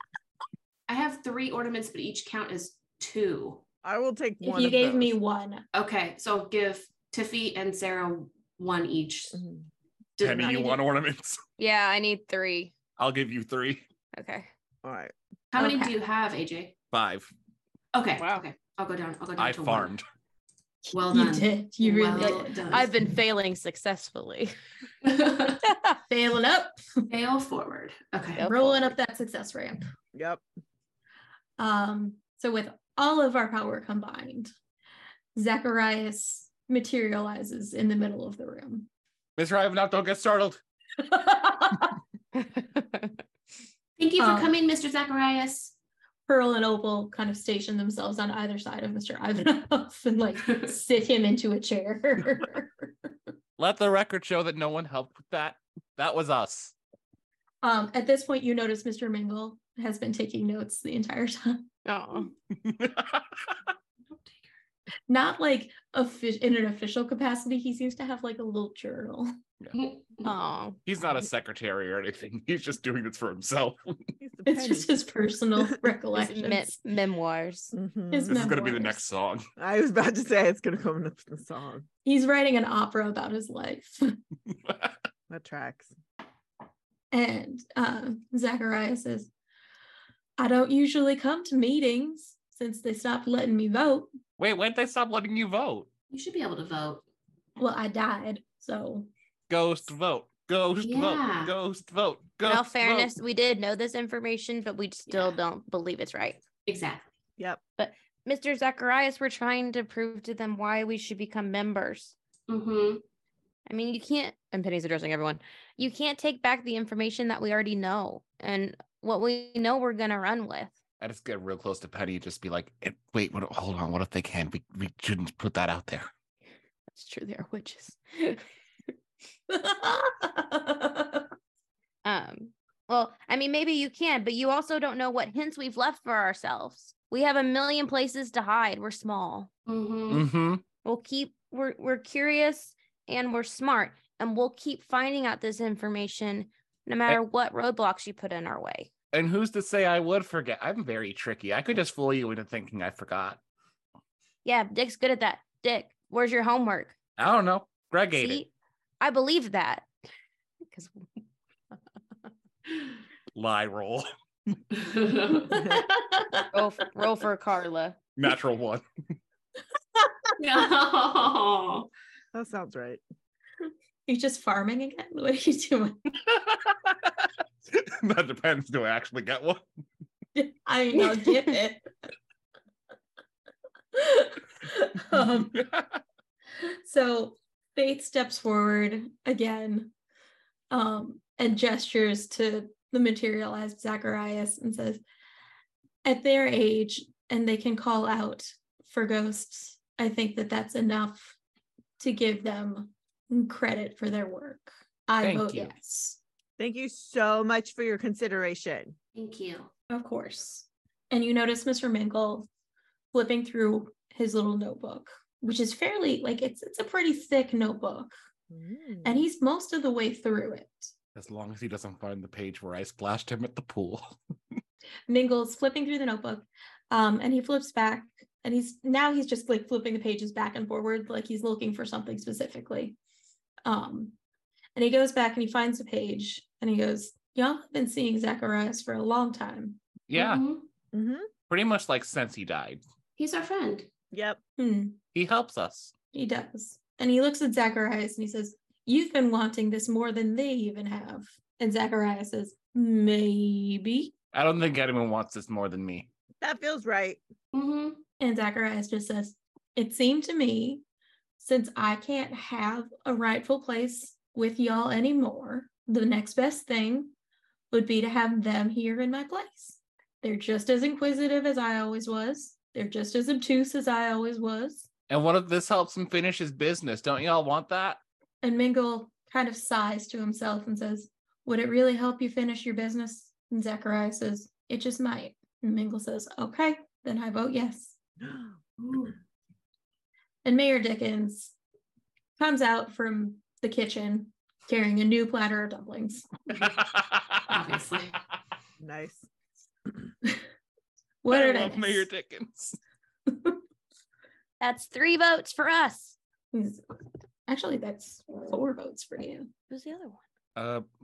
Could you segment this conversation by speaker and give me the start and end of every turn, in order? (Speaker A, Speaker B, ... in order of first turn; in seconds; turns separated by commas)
Speaker A: 0.9-3.6, Speaker B: 3.8-5.2, Speaker C: 4.4-5.6, Speaker A: 5.7-9.4, Speaker B: 9.3-9.7, Speaker A: 10.2-10.8, Speaker D: 10.2-11.4, Speaker E: 11.6-12.8, Speaker D: 13.0-13.8, Speaker E: 14.1-14.5, Speaker B: 14.8-15.1, Speaker A: 15.5-16.7, Speaker C: 15.6-15.9, Speaker D: 16.9-17.3, Speaker A: 17.9-19.9, Speaker E: 18.2-18.4, Speaker D: 19.4-20.1, Speaker A: 20.9-22.9, Speaker C: 20.9-22.5, Speaker E: 22.1-24.5, Speaker A: 25.0-25.6, Speaker C: 26.0-27.0, Speaker A: 27.1-28.5, Speaker E: 28.4-28.9, Speaker C: 28.4-29.8, Speaker B: 30.1-30.4, Speaker C: 31.6-34.5, Speaker C: 35.3-38.9, Speaker D: 39.4-40.6, Speaker C: 41.0-41.9, Speaker E: 42.3-43.2, Speaker A: 44.0-45.7, Speaker C: 44.2-44.5, Speaker C: 46.3-52.9, Speaker A: 50.4-50.7, Speaker D: 53.6-56.7, Speaker C: 57.6-61.6, Speaker E: 61.8-62.3, Speaker D: 62.5-63.7, Speaker A: 64.1-64.5, Speaker C: 65.1-69.3, Speaker A: 69.7-70.3, Speaker E: 70.2-70.8, Speaker D: 70.8-74.1, Speaker B: 74.2-75.0, Speaker C: 74.5-76.8, Speaker E: 76.1-77.7, Speaker B: 77.7-78.5, Speaker C: 78.1-79.0, Speaker D: 78.3-79.4, Speaker B: 79.6-81.9, Speaker C: 82.0-84.2, Speaker D: 84.7-84.9, Speaker B: 85.3-85.9, Speaker C: 87.1-89.3, Speaker C: 90.4-94.1, Speaker D: 94.4-95.9, Speaker A: 96.1-97.0, Speaker C: 97.6-99.1, Speaker D: 99.5-103.1, Speaker A: 100.8-101.5, Speaker E: 102.5-106.4, Speaker A: 105.1-105.4, Speaker A: 106.7-107.1, Speaker E: 107.8-112.1, Speaker A: 112.5-113.0, Speaker E: 113.7-120.8, Speaker D: 121.0-126.1, Speaker E: 126.9-128.4, Speaker C: 129.5-131.2, Speaker E: 132.0-139.5, Speaker A: 139.7-140.2, Speaker D: 140.1-140.6, Speaker E: 140.8-148.9, Speaker D: 149.1-153.4, Speaker E: 154.4-156.9, Speaker D: 157.2-158.4, Speaker E: 158.1-158.5, Speaker E: 159.0-159.8, Speaker E: 160.7-161.0, Speaker D: 163.3-164.6, Speaker A: 164.7-165.6, Speaker B: 165.5-165.8, Speaker C: 165.6-166.5, Speaker E: 166.5-168.0, Speaker D: 168.2-168.8, Speaker A: 170.4-171.9, Speaker B: 172.3-173.0, Speaker C: 174.1-176.0, Speaker D: 176.2-179.6, Speaker C: 180.3-181.9, Speaker C: 183.9-185.6, Speaker D: 185.5-186.0, Speaker C: 186.6-189.9, Speaker C: 190.7-195.0, Speaker C: 196.0-201.3, Speaker C: 202.0-206.2, Speaker D: 205.2-205.7, Speaker B: 206.6-208.9, Speaker A: 209.1-209.7, Speaker C: 209.9-212.5, Speaker C: 213.1-218.1, Speaker B: 218.5-219.2, Speaker C: 219.0-220.9, Speaker D: 221.1-224.2, Speaker C: 225.1-232.9, Speaker C: 233.6-234.2, Speaker C: 234.8-239.8, Speaker D: 240.1-240.4, Speaker A: 240.1-240.7, Speaker B: 240.9-241.3, Speaker D: 241.5-242.8, Speaker A: 243.2-243.9, Speaker B: 244.1-244.4, Speaker C: 244.6-245.0, Speaker D: 245.1-245.9, Speaker C: 246.1-254.1, Speaker D: 254.3-256.1, Speaker B: 256.4-257.2, Speaker A: 257.5-258.0, Speaker C: 258.2-260.8, Speaker C: 261.4-267.1, Speaker C: 267.7-274.9, Speaker D: 275.1-278.0, Speaker C: 278.4-287.9, Speaker B: 288.2-288.6, Speaker A: 288.8-289.1, Speaker C: 290.4-291.5, Speaker C: 292.4-296.3, Speaker D: 296.6-297.6, Speaker A: 297.5-298.2, Speaker B: 298.8-299.3, Speaker C: 301.2-302.1, Speaker D: 301.3-302.8, Speaker C: 303.3-303.6, Speaker E: 304.6-306.1, Speaker C: 306.5-306.8, Speaker C: 307.5-309.5, Speaker E: 309.7-310.2, Speaker D: 310.6-310.8